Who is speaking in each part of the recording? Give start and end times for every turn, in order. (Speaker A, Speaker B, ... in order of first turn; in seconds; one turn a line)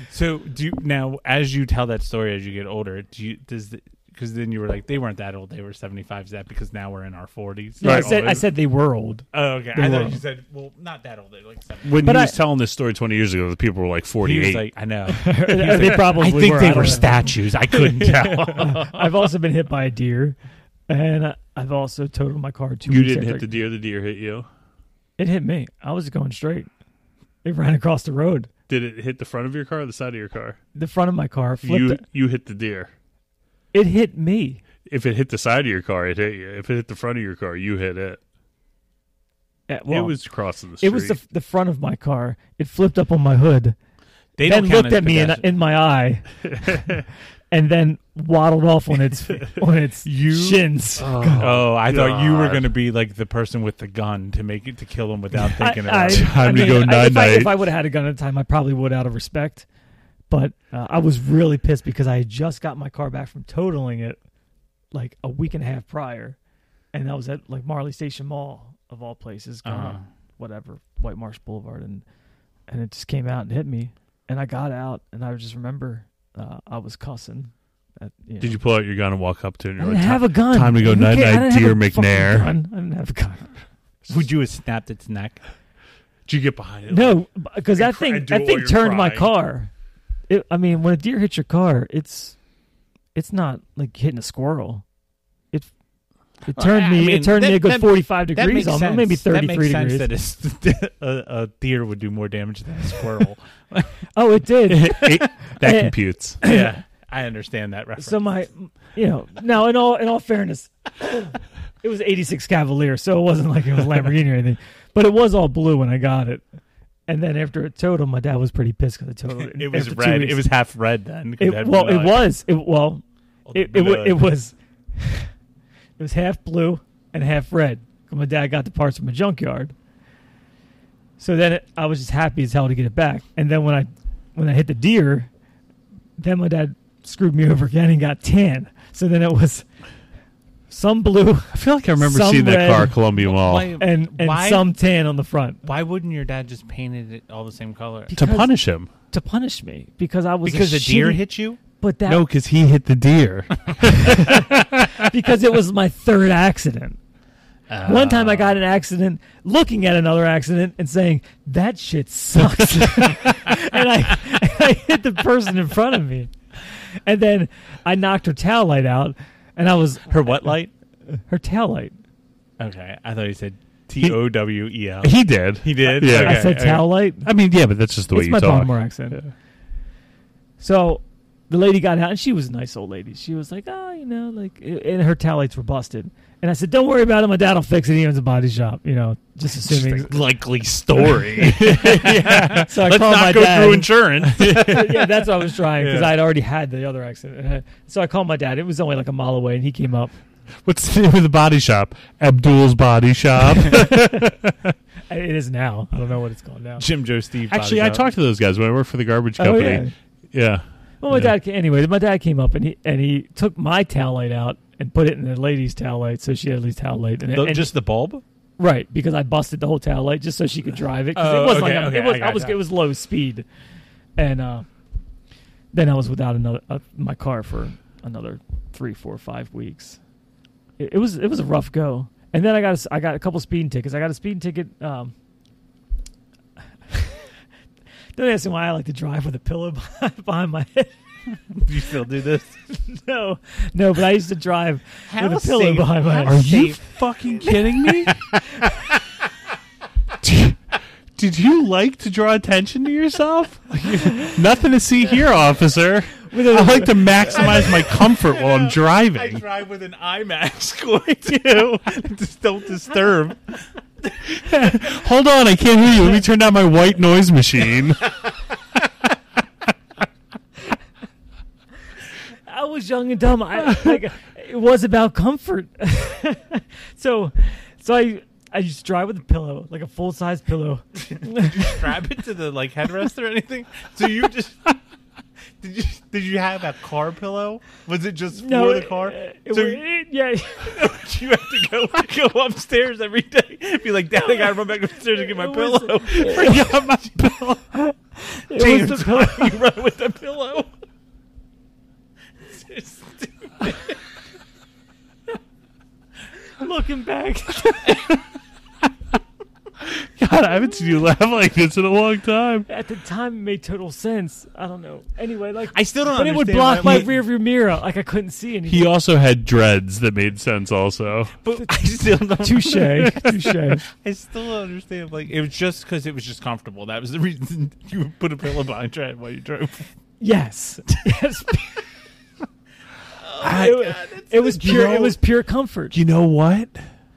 Speaker A: 0.1-8.4
Speaker B: 7.8-10.2
Speaker C: 7.8-8.4
Speaker A: 9.3-12.0
Speaker C: 11.8-14.7
Speaker B: 12.0-12.3
Speaker A: 14.2-19.0
Speaker B: 15.1-17.2
Speaker C: 15.7-16.1
Speaker C: 17.7-18.8
Speaker B: 18.5-20.4
Speaker B: 20.9-23.5
Speaker C: 22.9-24.5
Speaker B: 25.2-26.7
Speaker B: 27.4-28.5
Speaker C: 28.7-30.6
Speaker B: 30.7-32.0
Speaker C: 31.6-32.9
Speaker B: 33.7-34.6
Speaker C: 34.9-38.2
Speaker B: 39.7-40.2
Speaker C: 39.9-41.2
Speaker B: 40.8-43.8
Speaker A: 44.4-45.5
Speaker B: 44.4-46.8
Speaker C: 46.5-47.0
Speaker B: 47.5-51.5
Speaker A: 50.0-50.6
Speaker C: 51.0-52.7
Speaker A: 51.4-56.7
Speaker B: 55.6-59.6
Speaker C: 56.0-57.5
Speaker B: 60.3-64.2
Speaker B: 64.9-66.4
Speaker B: 66.9-72.0
Speaker A: 69.6-70.0
Speaker B: 72.7-78.6
Speaker C: 78.4-82.5
Speaker B: 79.8-83.5
Speaker A: 84.1-85.4
Speaker C: 86.3-87.0
Speaker B: 86.9-89.7
Speaker C: 87.8-89.3
Speaker B: 90.3-92.4
Speaker B: 93.1-94.8
Speaker B: 96.5-100.1
Speaker A: 96.5-103.9
Speaker B: 104.1-106.8
Speaker C: 104.7-106.4
Speaker A: 106.4-108.3
Speaker B: 108.0-116.4
Speaker B: 117.1-120.5
Speaker A: 119.4-122.2
Speaker B: 121.4-125.3
Speaker A: 123.5-124.3
Speaker B: 126.0-129.7
Speaker B: 131.2-135.3
Speaker B: 136.2-139.7
Speaker B: 140.7-143.0
Speaker C: 141.5-143.7
Speaker A: 143.1-144.7
Speaker B: 143.8-145.6
Speaker A: 145.6-148.1
Speaker B: 148.1-148.5
Speaker C: 148.2-148.9
Speaker B: 149.1-152.2
Speaker A: 150.4-151.6
Speaker C: 152.1-155.0
Speaker B: 154.0-157.0
Speaker A: 157.7-158.6
Speaker B: 157.8-170.6
Speaker A: 170.1-170.7
Speaker B: 171.3-171.9
Speaker A: 172.6-176.9
Speaker C: 175.0-179.3
Speaker B: 176.0-177.3
Speaker B: 178.1-179.2
Speaker B: 180.6-190.2
Speaker A: 189.7-195.1
Speaker C: 191.0-192.7
Speaker B: 191.9-200.1
Speaker C: 194.4-194.7
Speaker A: 195.8-196.1
Speaker C: 200.6-204.7
Speaker B: 203.8-204.3
Speaker B: 205.1-206.8
Speaker A: 206.8-208.1
Speaker C: 207.5-211.3
Speaker B: 209.4-209.9
Speaker B: 211.0-217.7
Speaker A: 217.3-218.2
Speaker B: 218.6-223.4
Speaker A: 221.1-222.6
Speaker B: 224.2-224.7
Speaker B: 225.7-230.0
Speaker B: 230.8-235.1
Speaker B: 236.9-237.3
Speaker B: 238.1-241.0
Speaker A: 241.5-242.6
Speaker B: 242.7-246.4
Speaker A: 245.1-248.7
Speaker C: 246.2-248.2
Speaker C: 250.2-250.6
Speaker C: 251.2-259.4
Speaker B: 256.3-257.4
Speaker A: 257.4-264.1
Speaker C: 264.3-268.1
Speaker B: 272.4-281.8
Speaker A: 281.1-284.7
Speaker A: 285.6-289.8
Speaker B: 288.3-290.7
Speaker A: 290.6-297.0
Speaker B: 295.1-296.6
Speaker C: 296.2-297.6
Speaker B: 297.7-299.6
Speaker A: 298.5-300.7
Speaker A: 302.4-304.0
Speaker B: 306.6-308.0
Speaker C: 309.8-312.7
Speaker B: 312.7-318.9
Speaker A: 315.7-317.2
Speaker C: 318.7-321.3
Speaker A: 321.4-323.2
Speaker B: 321.6-323.8
Speaker A: 323.9-329.9
Speaker B: 330.2-331.8
Speaker A: 333.2-335.1
Speaker B: 333.4-335.9
Speaker C: 333.4-333.8
Speaker C: 334.6-335.1
Speaker C: 335.9-336.9